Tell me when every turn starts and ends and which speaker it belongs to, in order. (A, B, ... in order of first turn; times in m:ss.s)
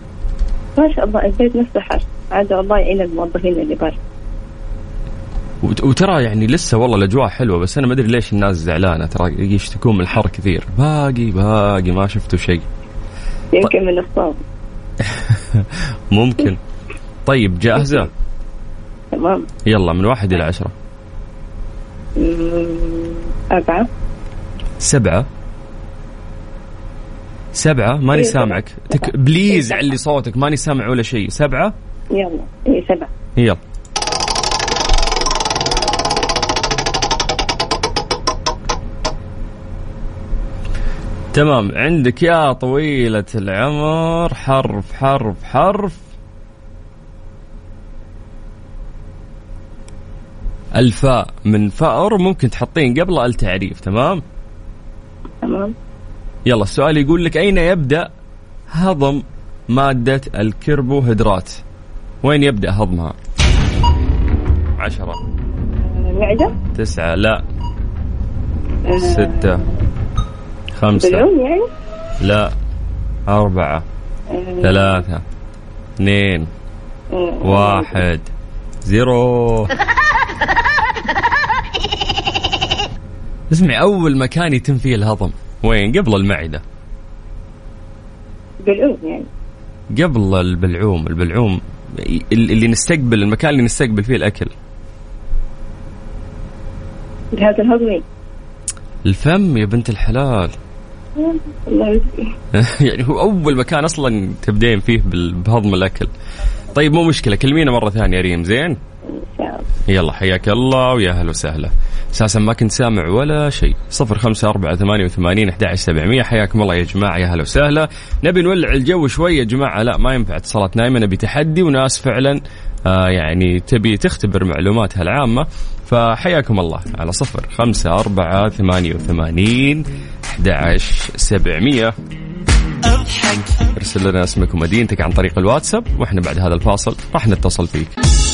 0:00.8-0:04.0 A
0:05.6-0:12.7 B
0:13.5-0:14.4 A
0:15.0-0:16.6 B
0:17.3-0:18.1 B
0:17.8-0:18.0 A
0:19.1-0:19.5 A
0:19.7-0:20.7 B
0:22.2-0:23.9 A
0:24.8-0:25.3 B
0:27.5-0:31.8 B
0:28.1-0:29.9 A
0:32.1-0:33.1 A
0:41.3-0:46.0 B
0:50.8-0:54.2 B
0:55.4-0:55.8 A
0:56.4-0:58.1 B
0:58.7-1:01.6 B
1:02.2-1:03.2 B
1:04.8-1:05.2 B
1:05.9-1:06.6 A
1:06.8-1:07.4 B
1:08.8-1:09.6 A
1:09.0-1:09.6 B
1:10.8-1:11.3 B
1:11.0-1:11.7 A
1:12.2-1:12.5 B
1:13.3-1:13.8 B
1:14.3-1:15.1 A
1:14.6-1:15.2 B
1:16.0-1:16.5 B
1:17.1-1:18.0 A
1:17.4-1:18.3 B
1:18.8-1:19.7 B
1:23.5-1:26.6 B
1:28.6-1:29.3 A
1:29.9-1:34.5 B
1:37.3-1:38.0 A
1:39.0-1:40.6 B
1:41.2-1:42.3 A
1:42.5-1:46.1 B
1:46.7-1:48.8 B
1:49.1-1:49.7 A
1:49.9-2:11.9 B
2:13.7-2:18.0 B